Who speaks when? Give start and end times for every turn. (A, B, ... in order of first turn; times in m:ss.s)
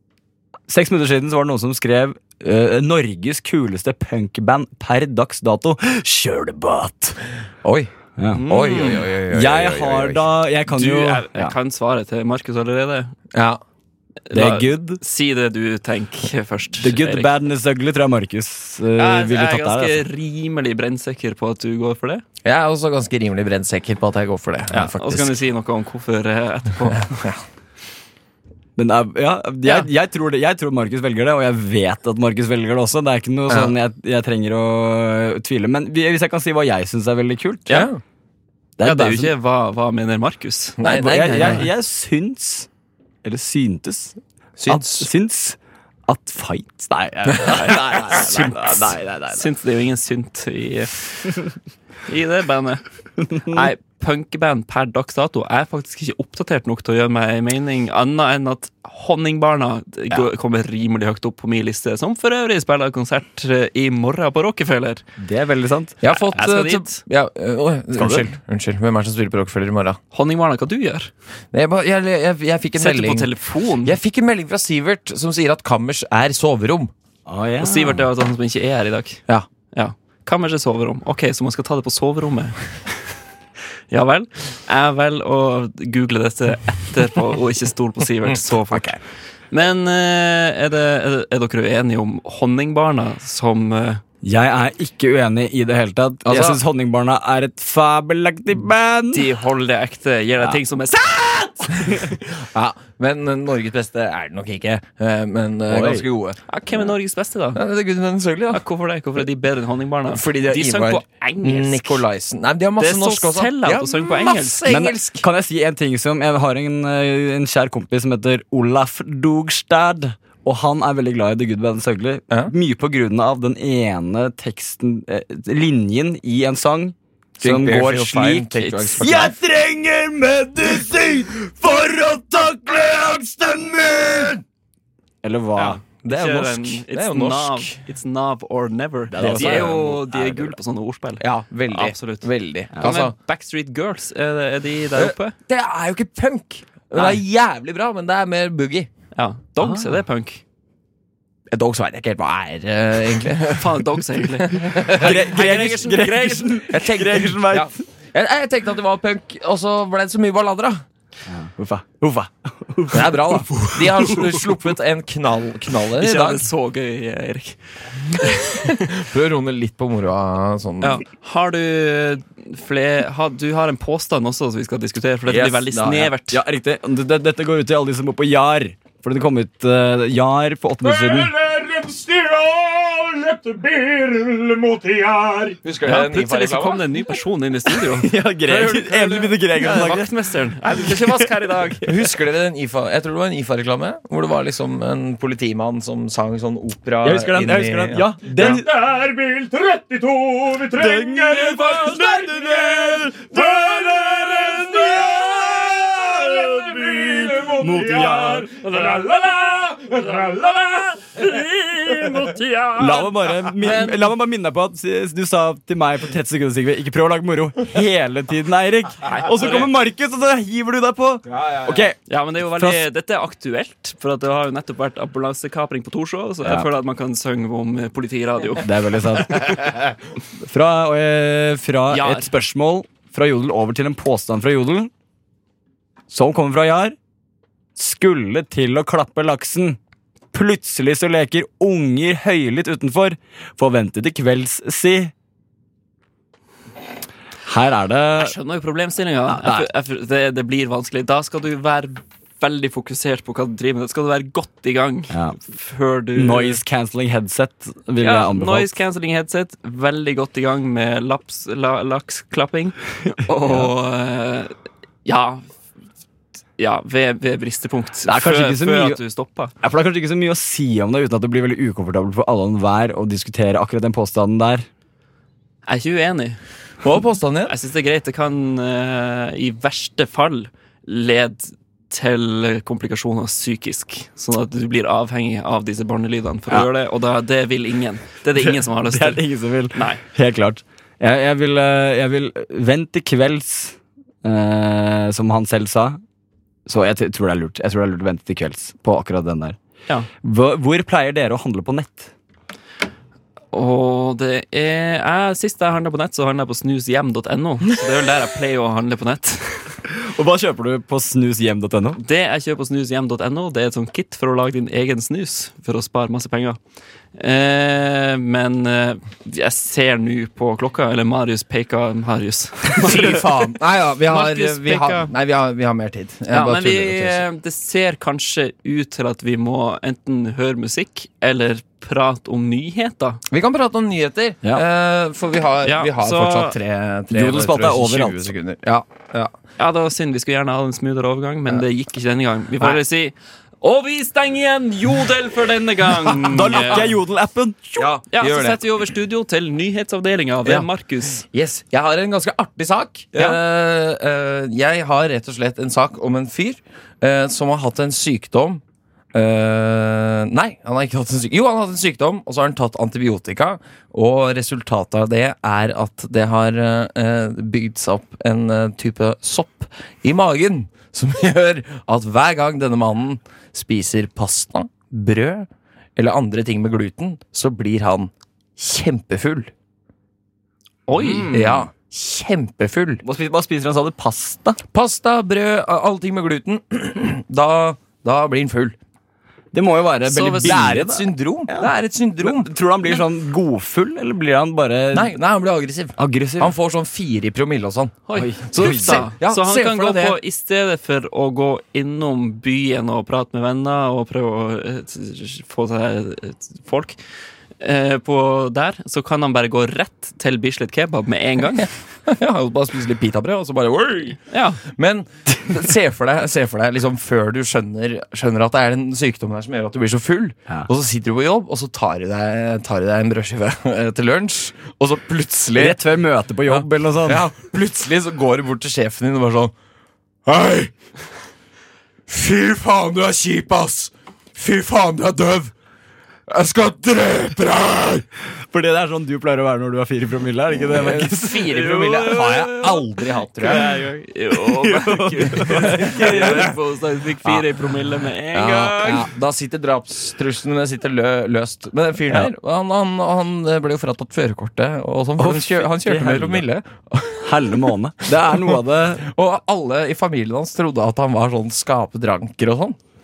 0:00.7-0:07.2 A
0:07.6-0:10.2 B
0:08.2-0:11.5 A
0:08.3-0:09.0 C
0:10.7-0:13.1 C
0:13.3-0:13.6 B
0:14.3-0:17.3 C
0:14.3-0:15.0 A
0:16.8-0:20.1 A
0:19.0-0:22.2 C
0:22.4-0:25.4 B
0:24.7-0:27.2 C
0:28.8-0:37.9 A
0:33.5-0:33.7 B
0:37.7-0:38.0 B
0:38.8-0:39.3 A
0:38.8-0:41.7 C
0:40.8-0:41.6 B
0:40.8-0:42.7 A
0:43.2-0:49.5 A
0:44.6-0:45.1 B
0:47.3-0:48.9 B
0:49.3-0:51.3 C
0:52.1-0:52.8 C
0:53.2-0:53.7 A
0:53.4-1:05.0 C
1:05.2-1:06.0 A
1:06.0-1:10.0 B
1:06.1-1:07.0 C
1:08.0-1:08.2 A
1:10.1-1:11.1 C
1:11.5-1:13.3 B
1:12.8-1:14.0 C
1:13.8-1:16.9 B
1:17.2-1:18.1 A
1:17.6-1:22.5 C
1:23.9-1:29.0 C
1:29.5-1:34.0 C
1:34.2-1:39.3 A
1:36.2-1:36.6 B
1:39.1-1:42.0 C
1:41.8-1:46.4 B
1:45.7-1:46.1 A
1:46.5-1:47.6 C
1:47.5-1:48.6 B
1:48.5-1:52.0 C
1:50.1-1:55.2 B
1:52.8-1:54.6 C
1:54.6-2:13.9 A
2:07.4-2:09.3 B
2:11.5-2:14.4 B
2:15.2-2:15.8 A
2:15.6-2:22.3 C
2:16.0-2:17.7 B
2:19.1-2:20.5 A
2:19.2-2:19.8 B
2:21.2-2:23.1 B
2:22.8-2:25.4 C
2:25.0-2:28.9 B
2:26.9-2:27.2 C
2:29.1-2:30.4 C
2:29.6-2:29.9 A
2:31.5-2:35.2 B
2:33.5-2:36.7 C
2:34.8-2:37.8 A
2:36.7-2:40.8 B
2:41.3-2:44.3 A
2:42.9-2:46.4 B
2:46.0-2:48.7 C
2:48.5-2:51.0 B
2:50.8-2:56.4 C
2:55.3-2:56.1 B
2:56.3-3:01.3 A
3:00.8-3:05.6 D
3:05.6-3:06.9 B
3:05.8-3:12.0 C
3:07.8-3:10.1 A
3:10.7-3:11.3 A
3:11.8-3:18.5 B
3:17.0-3:18.7 A
3:18.3-3:33.1 D
3:20.7-3:23.5 A
3:27.4-3:28.5 A
3:32.8-3:42.8 A
3:33.6-3:34.1 C
3:39.1-3:39.7 C
3:41.3-3:41.9 B
3:42.1-3:48.7 C
3:46.4-3:46.7 A
3:48.6-3:54.9 A
3:51.9-3:52.3 C
3:56.1-3:57.0 A
3:57.8-3:59.8 A
4:00.3-4:05.1 A
4:07.4-4:08.4 A
4:08.2-4:16.6 C
4:09.3-4:09.7 A
4:15.1-4:15.4 A
4:16.1-4:18.7 A
4:18.0-4:25.5 C
4:23.4-4:23.7 A
4:26.6-4:29.5 C
4:28.1-4:29.0 A
4:29.6-4:34.7 A
4:35.6-4:36.4 C
4:36.8-4:37.5 B
4:37.4-4:50.0 C
4:48.3-4:56.0 A
4:56.6-4:59.6 A
5:00.1-5:02.1 A
5:03.5-5:09.6 C
5:09.9-5:12.0 A
5:12.0-5:16.6 C
5:17.2-5:23.3 C
5:22.8-5:27.2 B
5:24.1-5:25.1 C
5:26.3-5:33.2 C
5:33.3-5:39.3 B
5:35.6-5:36.6 C
5:37.1-5:38.3 A
5:39.6-5:46.9 C
5:46.1-5:46.9 B
5:46.3-5:47.9 A
5:47.8-5:48.6 B
5:48.1-5:51.2 C
5:51.2-5:58.6 B
5:59.1-6:19.5 B
6:20.9-6:21.6 C
6:21.3-6:23.0 B
6:23.0-6:24.6 A
6:24.7-6:28.8 B
6:29.5-6:35.1 A
6:30.1-6:30.6 C
6:30.4-6:32.5 B
6:34.9-6:40.2 B
6:36.0-6:36.5 A
6:38.1-6:47.0 C
6:38.2-6:39.1 A
6:47.6-6:51.7 C
6:52.1-7:05.8 B
6:54.3-6:54.6 C
7:05.5-7:07.2 A
7:06.5-7:09.5 B
7:10.2-7:10.7 B
7:12.1-7:15.5 B
7:16.3-7:18.0 B
7:18.3-7:26.6 A
7:20.7-7:23.7 B
7:23.5-7:29.1 C
7:26.0-7:26.5 B
7:28.3-7:37.6 B
7:35.2-7:36.4 A
7:37.2-7:39.1 A
7:38.5-7:42.8 B